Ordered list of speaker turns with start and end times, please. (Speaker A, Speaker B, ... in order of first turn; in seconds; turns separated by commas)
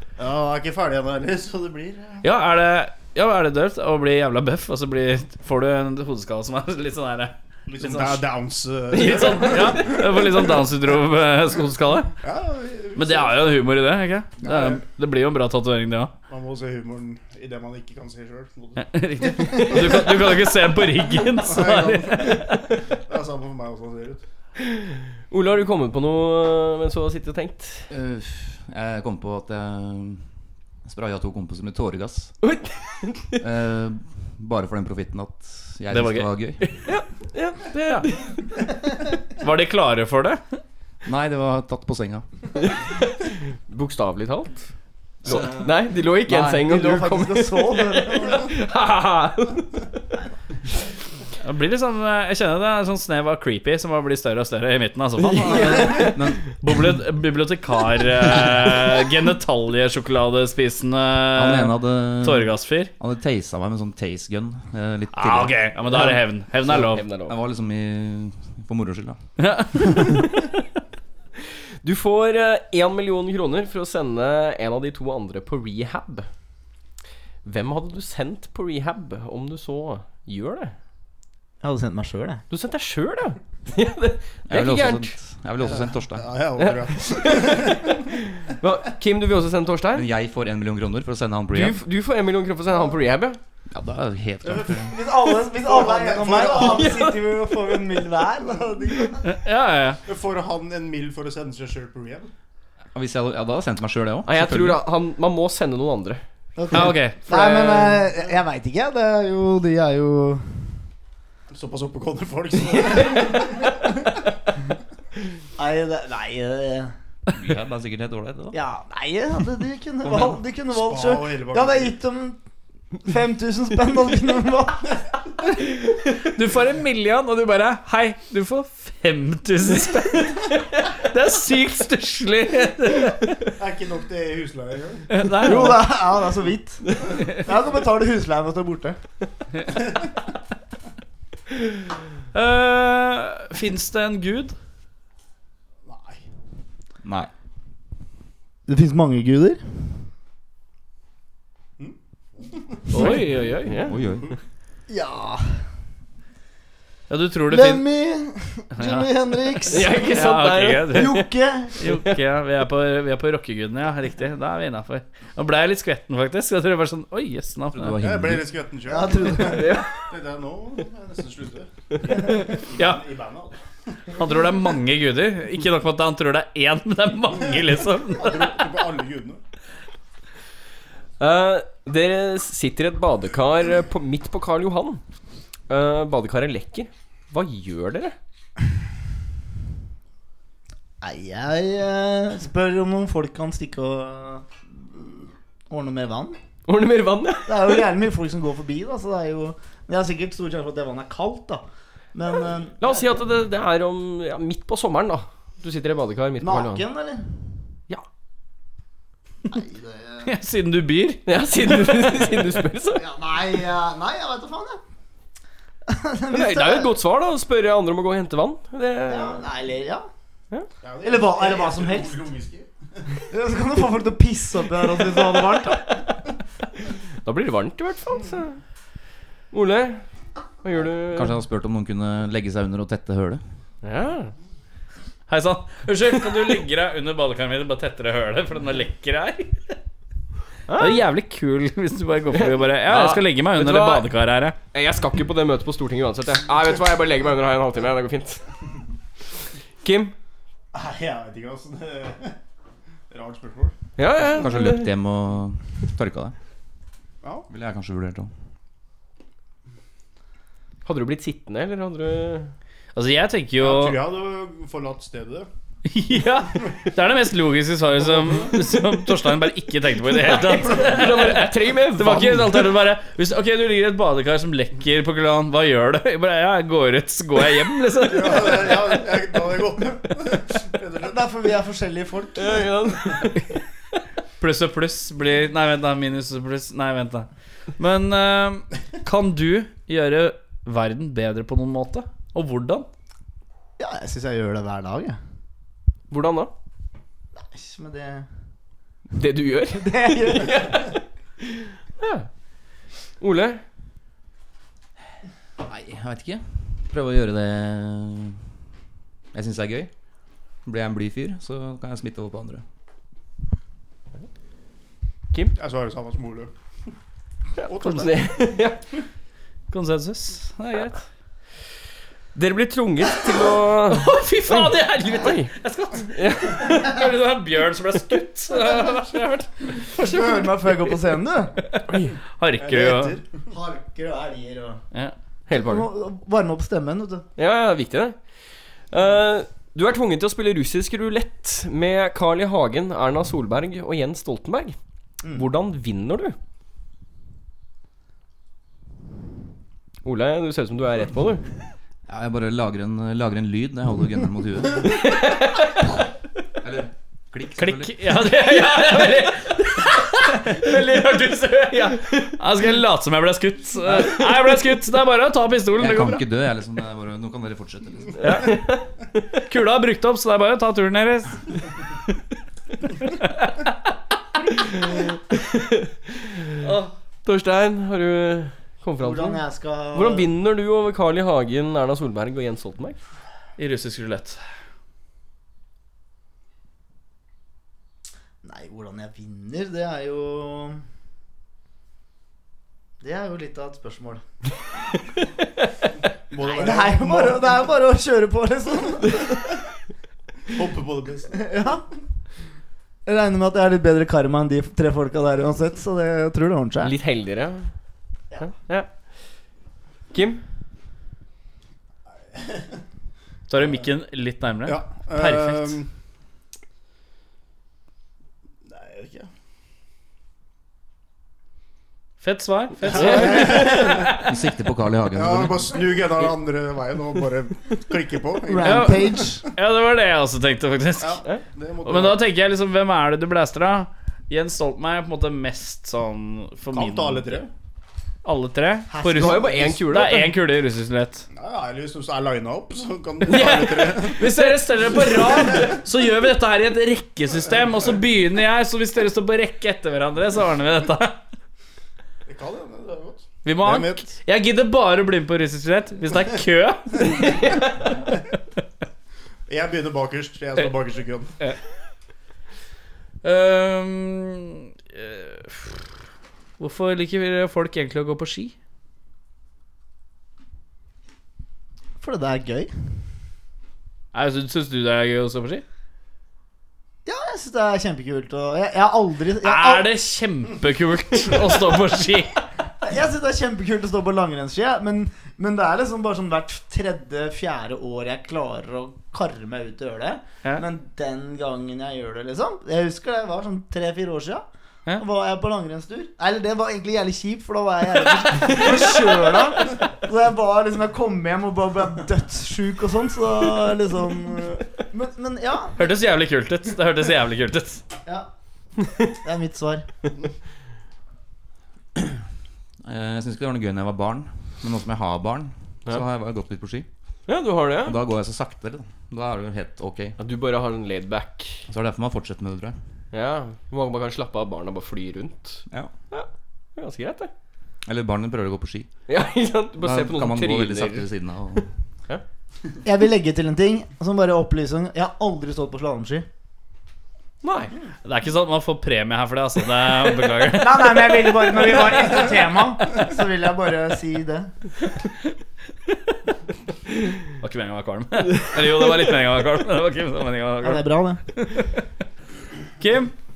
Speaker A: 0.2-2.2, Speaker B: 2.2-8.2, Speaker A: 7.7-10.2, Speaker B: 8.9-12.1, Speaker C: 8.9-9.8, Speaker A: 12.2-13.4, Speaker B: 12.9-16.1, Speaker A: 14.4-14.8, Speaker A: 16.3-20.3, Speaker B: 18.8-22.7, Speaker A: 21.2-24.2, Speaker C: 24.6-27.9, Speaker D: 27.9-30.2, Speaker D: 30.8-32.4, Speaker C: 32.4-33.4, Speaker D: 33.4-36.6, Speaker B: 35.9-36.7, Speaker C: 36.8-38.3, Speaker B: 39.4-40.4, Speaker D: 41.0-42.2, Speaker C: 42.6-44.7, Speaker D: 45.2-46.5, Speaker C: 45.2-49.7, Speaker E: 46.5-48.5, Speaker B: 51.4-62.9, Speaker C: 55.2-56.4, Speaker D: 56.0-56.4, Speaker D: 61.3-66.0, Speaker B: 65.1-67.0, Speaker C: 66.7-67.4, Speaker D: 67.2-69.2, Speaker B: 69.4-70.1, Speaker C: 71.8-76.3, Speaker C: 77.4-80.7, Speaker E: 81.6-82.4, Speaker C: 82.5-85.2, Speaker D: 84.5-86.4, Speaker A: 85.6-88.1, Speaker C: 86.6-90.1, Speaker D: 89.9-91.8, Speaker C: 91.5-93.4, Speaker D: 93.7-94.9, Speaker A: 94.4-97.1, Speaker E: 94.9-99.3, Speaker C: 96.6-98.0, Speaker A: 98.4-99.1, Speaker B: 99.2-100.0, Speaker A: 100.0-102.3, Speaker D: 102.9-104.8, Speaker C: 104.2-106.2, Speaker E: 106.5-110.8, Speaker B: 106.7-107.2, Speaker C: 106.8-107.9, Speaker A: 111.5-114.1, Speaker E: 115.6-116.9, Speaker D: 117.3-118.6, Speaker E: 118.5-122.4, Speaker A: 120.0-122.0, Speaker E: 123.0-125.1, Speaker B: 126.2-133.3, Speaker A: 133.6-135.3, Speaker B: 135.1-135.8, Speaker E: 135.4-139.0, Speaker B: 142.3-144.6, Speaker A: 145.8-146.2, Speaker D: 147.0-147.3, Speaker E: 148.7-150.1, Speaker A: 151.8-152.9, Speaker B: 152.9-153.8, Speaker C: 153.0-154.0, Speaker D: 153.8-154.3, Speaker E: 154.9-155.7, Speaker B: 157.1-157.8, Speaker E: 157.5-160.1, Speaker B: 158.7-161.2, Speaker C: 159.7-161.3, Speaker E: 160.9-161.8, Speaker B: 161.8-168.0, Speaker C: 161.8-162.2, Speaker D: 167.7-168.6, Speaker A: 168.0-173.6, Speaker E: 168.9-169.7, Speaker C: 169.3-170.0, Speaker B: 172.7-173.0, Speaker B: 174.1-178.5, Speaker A: 178.1-179.4, Speaker C: 181.2-185.0, Speaker C: 185.7-188.2, Speaker E: 191.0-196.4, Speaker C: 196.7-197.8, Speaker E: 197.4-203.0, Speaker C: 202.8-206.8, Speaker E: 206.4-207.3, Speaker E: 209.5-210.3, Speaker B: 210.2-211.2, Speaker C: 211.2-213.0, Speaker E: 212.9-214.8, Speaker E: 215.9-216.9, Speaker C: 216.3-219.4, Speaker E: 219.1-220.1, Speaker A: 220.8-223.1, Speaker E: 221.0-222.2, Speaker E: 223.3-226.0, Speaker C: 227.2-228.6, Speaker C: 229.5-230.0, Speaker C: 230.6-231.3, Speaker D: 231.1-233.4, Speaker C: 233.8-234.3, Speaker B: 235.3-239.8, Speaker C: 240.7-241.0, Speaker B: 240.8-244.6, Speaker C: 242.3-244.1, Speaker C: 244.7-248.4, Speaker C: 249.8-250.1, Speaker A: 250.7-252.4, Speaker A: 253.1-253.8, Speaker C: 254.0-254.9, Speaker D: 254.2-256.3, Speaker D: 257.5-258.3, Speaker C: 260.8-262.5, Speaker B: 262.9-264.0, Speaker A: 263.6-265.5, Speaker B: 265.8-278.8, Speaker C: 270.1-272.8, Speaker A: 278.1-281.2, Speaker E: 281.0-283.0, Speaker C: 282.3-283.5, Speaker B: 284.4-292.9, Speaker E: 293.8-295.2, Speaker C: 296.1-296.5, Speaker E: 297.3-298.3, Speaker C: 299.1-301.0, Speaker E: 299.7-300.9, Speaker C: 302.0-302.3, Speaker C: 303.2-303.6, Speaker D: 305.6-308.4, Speaker D: 309.3-309.9, Speaker D: 310.6-312.6, Speaker A: 315.6-316.5, Speaker C: 317.6-318.8, Speaker A: 317.9-318.2, Speaker B: 319.7-321.0, Speaker C: 322.3-325.5, Speaker B: 323.9-329.8, Speaker C: 326.1-326.9, Speaker E: 329.9-331.5, Speaker C: 331.9-332.1, Speaker B: 332.4-333.2, Speaker A: 332.6-333.4, Speaker E: 333.4-334.8, Speaker C: 335.5-335.9, Speaker E: 335.5-337.2, Speaker C: 337.4-338.2, Speaker C: 338.9-344.8, Speaker C: 345.3-346.4, Speaker C: 350.0-351.4, Speaker D: 352.1-355.1, Speaker C: 355.1-355.6, Speaker D: 356.6-358.2, Speaker B: 357.6-366.2, Speaker D: 365.8-368.2, Speaker B: 368.2-368.6, Speaker C: 368.2-368.8, Speaker B: 369.4-371.4, Speaker B: 373.1-373.7, Speaker C: 374.9-375.9, Speaker B: 376.6-376.9, Speaker C: 377.2-379.4, Speaker E: 379.0-380.3, Speaker C: 379.9-383.0, Speaker B: 383.6-384.4, Speaker E: 388.4-390.8, Speaker E: 393.0-394.2, Speaker A: 396.3-397.7, Speaker E: 396.4-399.4, Speaker A: 400.5-401.4, Speaker E: 401.3-401.8, Speaker E: 403.1-406.9, Speaker C: 406.8-407.7, Speaker C: 408.4-408.9, Speaker C: 410.1-410.4, Speaker A: 412.3-412.8, Speaker B: 413.5-415.8, Speaker A: 413.6-413.8, Speaker A: 414.6-415.9, Speaker A: 418.6-419.3, Speaker B: 422.2-424.2, Speaker A: 422.8-424.2, Speaker C: 423.0-423.7, Speaker D: 424.1-425.8, Speaker A: 425.1-429.4, Speaker E: 428.5-429.5, Speaker B: 428.6-431.2, Speaker A: 431.0-432.2, Speaker B: 431.8-437.4, Speaker A: 436.7-437.5, Speaker B: 438.2-441.2, Speaker E: 438.9-439.8, Speaker C: 439.1-440.3, Speaker A: 441.3-444.3, Speaker B: 443.3-451.2, Speaker C: 443.3-445.6, Speaker A: 452.2-454.1, Speaker B: 453.4-457.7, Speaker A: 459.5-461.3, Speaker B: 463.2-465.9, Speaker B: 466.6-468.5, Speaker E: 472.0-472.7, Speaker B: 474.1-475.6, Speaker E: 477.1-479.9, Speaker B: 479.4-482.4, Speaker E: 482.8-494.4, Speaker E: 495.0-505.8, Speaker B: 505.8-507.8, Speaker E: 509.1-509.9, Speaker D: 512.8-516.9, Speaker C: 517.3-518.0, Speaker D: 517.8-520.2, Speaker C: 520.2-521.7, Speaker D: 521.7-522.8, Speaker C: 523.1-527.3, Speaker D: 527.9-528.9, Speaker C: 529.1-532.2, Speaker D: 529.8-531.7, Speaker E: 532.8-536.3, Speaker C: 537.4-537.7, Speaker B: 538.0-541.3, Speaker E: 540.5-544.5, Speaker B: 547.4-551.8, Speaker E: 550.6-551.2, Speaker B: 552.8-553.1